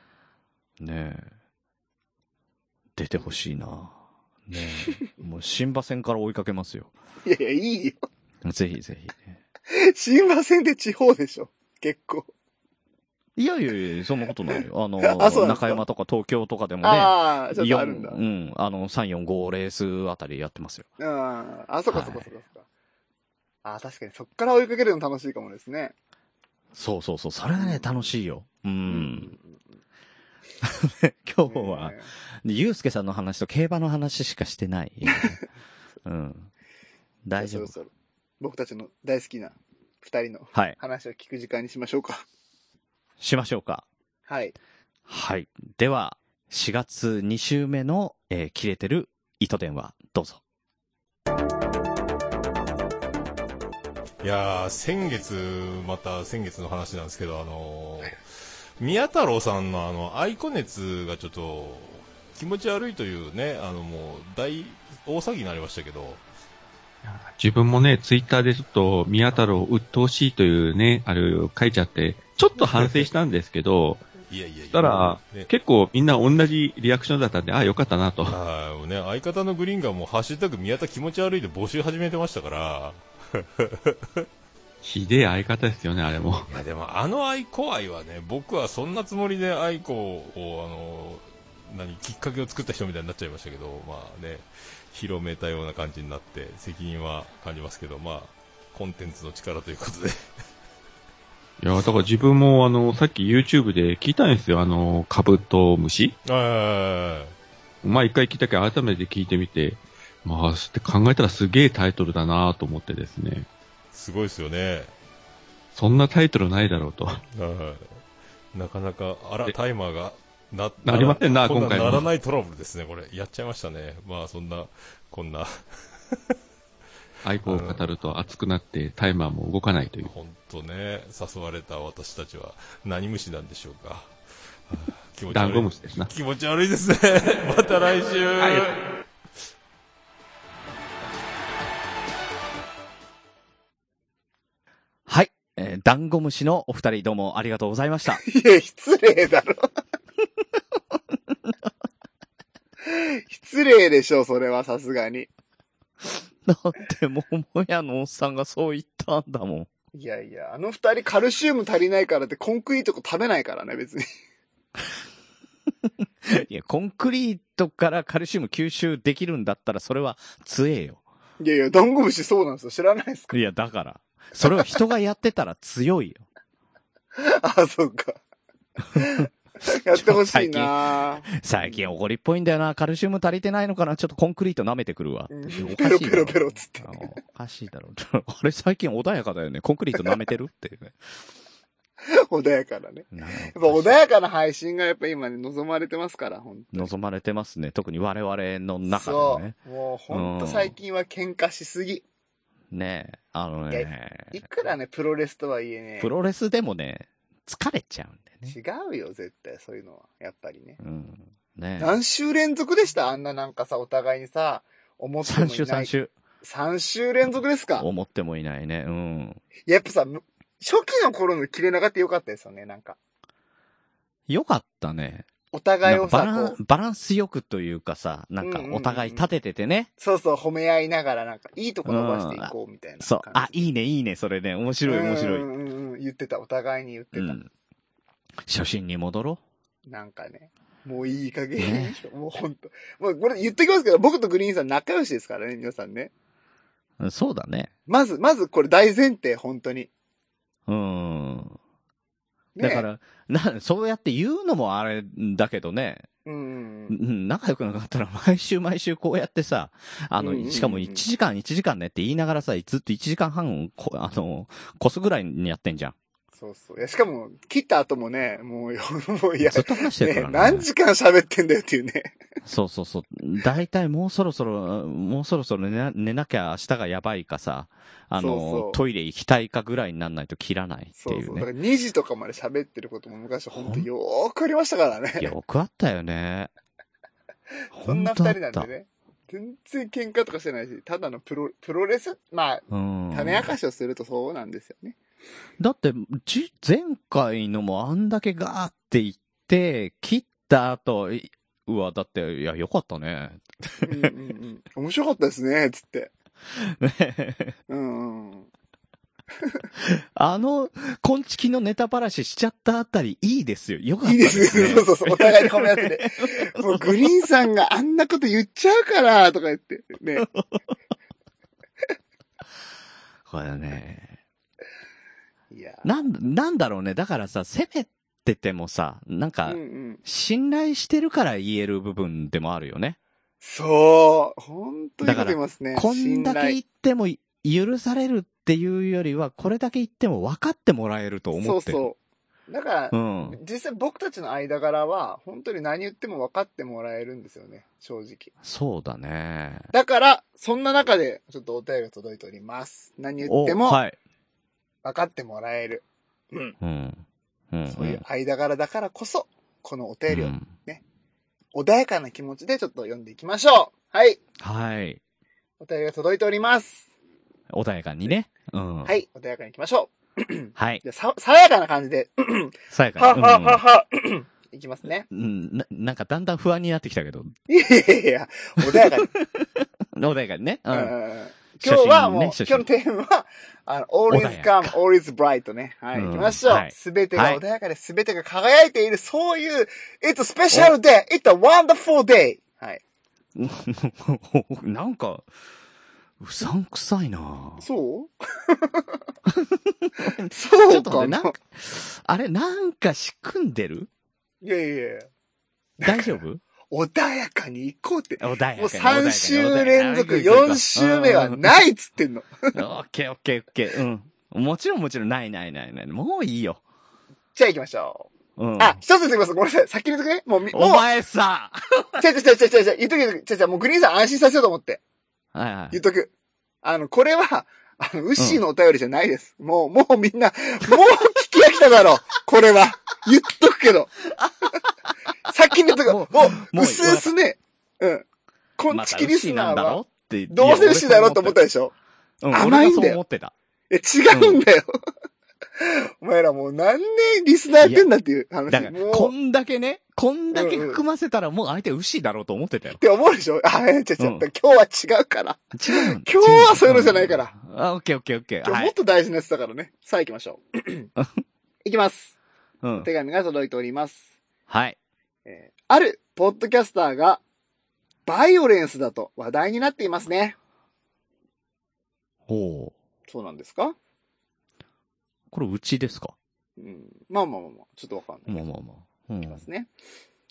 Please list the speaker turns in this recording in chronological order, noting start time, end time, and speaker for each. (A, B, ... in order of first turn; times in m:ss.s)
0:00.8-0:01.3 A
0:03.0-0:06.9 A
0:07.2-0:08.0 B
0:08.4-0:09.4 A
0:09.7-0:12.3 B
0:13.4-0:20.9 A
0:15.0-0:15.8 B
0:16.8-0:18.2 B
0:21.0-0:22.7 B
0:21.9-0:22.3 A
0:23.6-0:26.0 B
0:26.7-0:29.3 A
0:27.6-0:27.9 B
0:28.9-0:29.7 B
0:30.6-0:35.4 A
0:31.5-0:32.1 B
0:36.0-0:36.5 A
0:37.2-0:37.7 A
0:37.4-0:42.2 B
0:43.2-0:43.8 A
0:44.3-0:44.6 B
0:45.1-0:50.4 A
0:54.2-0:58.2 C
0:58.8-1:06.2 C
1:07.1-1:14.1 D
1:12.6-1:13.1 C
1:14.3-1:15.5 C
1:14.7-1:18.4 D
1:18.3-1:24.3 C
1:24.8-1:26.5 D
1:26.5-1:40.2 C
1:41.6-1:46.1 D
1:46.3-1:47.4 C
1:47.8-1:53.5 D
1:53.9-1:54.9 C
1:55.8-1:57.2 D
1:57.3-1:58.0 C
1:58.5-2:05.6 C
2:00.8-2:02.1 D
2:07.2-2:10.1 D
2:07.4-2:07.9 C
2:10.0-2:14.1 C
2:14.7-2:18.8 C
2:15.3-2:16.1 D
2:18.4-2:18.7 D
2:25.1-2:28.2 A
2:28.1-2:29.7 B
2:32.8-2:35.3 B
2:36.4-2:39.7 A
2:39.9-2:44.1 B
2:45.9-2:51.0 A
2:51.4-2:53.4 B
2:53.3-2:56.2 A
2:54.5-2:54.7 B
2:57.2-2:58.2 B
2:59.0-3:01.9 B
2:59.7-3:11.1 A
3:05.3-3:07.2 B
3:12.0-3:16.9 B
3:13.1-3:14.0 A
3:16.7-3:19.6 A
3:18.9-3:22.0 B
3:20.1-3:20.8 A
3:22.7-3:24.4 A
3:23.7-3:26.1 B
3:26.0-3:28.6 A
3:28.5-3:30.8 B
3:30.8-3:32.0 A
3:31.8-3:37.9 B
3:35.2-3:36.1 A
3:37.8-3:39.4 A
3:39.7-3:43.0 B
3:44.3-3:45.3 A
3:45.5-3:46.6 B
3:45.8-3:49.9 A
3:48.4-3:49.3 B
3:50.0-3:53.6 B
3:51.9-3:55.5 A
3:54.9-3:57.4 B
3:57.1-3:57.5 A
3:58.4-3:59.4 A
3:59.9-4:06.1 B
4:01.6-4:02.0 A
4:07.0-4:07.7 A
4:07.9-4:09.9 B
4:10.7-4:11.6 A
4:12.6-4:12.9 B
4:12.6-4:16.1 A
4:16.3-4:17.0 B
4:16.9-4:26.0 A
4:20.2-4:21.0 B
4:26.4-4:32.2 B
4:29.4-4:30.7 A
4:32.4-4:41.5 A
4:38.2-4:38.8 B
4:41.0-4:45.3 B
4:43.5-4:43.9 A
4:45.2-4:46.5 A
4:47.7-4:55.0 B
4:47.7-4:48.7 A
4:52.7-4:53.5 A
4:55.6-5:04.1 A
5:03.8-5:06.1 B
5:06.5-5:07.6 A
5:07.7-5:08.5 B
5:09.8-5:17.1 A
5:14.0-5:20.3 B
5:20.2-5:20.6 A
5:23.3-5:24.2 A
5:25.5-5:25.9 B
5:25.8-5:33.0 A
5:29.5-5:30.0 B
5:33.4-5:36.6 B
5:35.0-5:41.9 A
5:41.4-5:42.0 B
5:42.5-5:48.3 B
5:42.9-5:43.4 A
5:48.4-5:49.7 A
5:49.7-5:53.8 B
5:53.2-5:54.0 A
5:54.8-5:56.6 B
5:56.6-5:58.0 A
5:57.7-6:00.8 B
6:00.1-6:00.5 A
6:01.5-6:04.2 B
6:04.4-6:05.0 A
6:05.6-6:06.9 B
6:07.5-6:08.9 A
6:08.8-6:15.1 B
6:10.6-6:10.8 A
6:12.7-6:13.6 A
6:15.1-6:17.4 A
6:17.5-6:19.1 B
6:18.6-6:20.9 A
6:20.7-6:32.8 B
6:21.6-6:22.7 A
6:24.1-6:24.8 A
6:25.9-6:27.4 A
6:33.4-6:35.3 A
6:36.2-6:37.6 A
6:37.6-6:38.9 B
6:39.3-6:43.9 A
6:40.3-6:41.4 B
6:44.4-6:45.1 B
6:45.8-6:46.2 B
6:45.8-6:46.4 A
6:46.7-6:52.6 B
6:48.2-6:51.6 A
6:52.5-6:56.6 A
6:57.4-7:00.9 B
6:58.4-6:58.8 A
7:00.5-7:01.6 A
7:02.0-7:04.8 B
7:05.3-7:05.8 A
7:05.7-7:06.1 B
7:06.6-7:13.9 B
7:08.2-7:08.4 A
7:15.3-7:18.0 B
7:15.8-7:17.1 A
7:18.6-7:21.7 B
7:18.7-7:21.4 A
7:22.2-7:23.3 A
7:22.3-7:23.0 B
7:23.7-7:24.7 B
7:24.1-7:24.4 A
7:25.6-7:29.1 B
7:27.6-7:27.9 A
7:28.5-7:32.8 A
7:30.3-7:30.8 B
7:32.8-7:37.4 B
7:34.0-7:34.3 A
7:35.5-7:38.7 A
7:38.4-7:40.9 B
7:41.6-7:42.2 B
7:42.6-7:42.9 A
7:42.8-7:44.1 B
7:44.5-7:44.8 A
7:45.3-7:47.2 B
7:48.1-7:50.4 B
7:52.3-7:52.7 A
7:53.1-7:53.8 B
7:55.3-7:56.2 A
7:56.6-7:58.5 B
7:58.3-7:59.4 A
7:59.2-7:59.7 B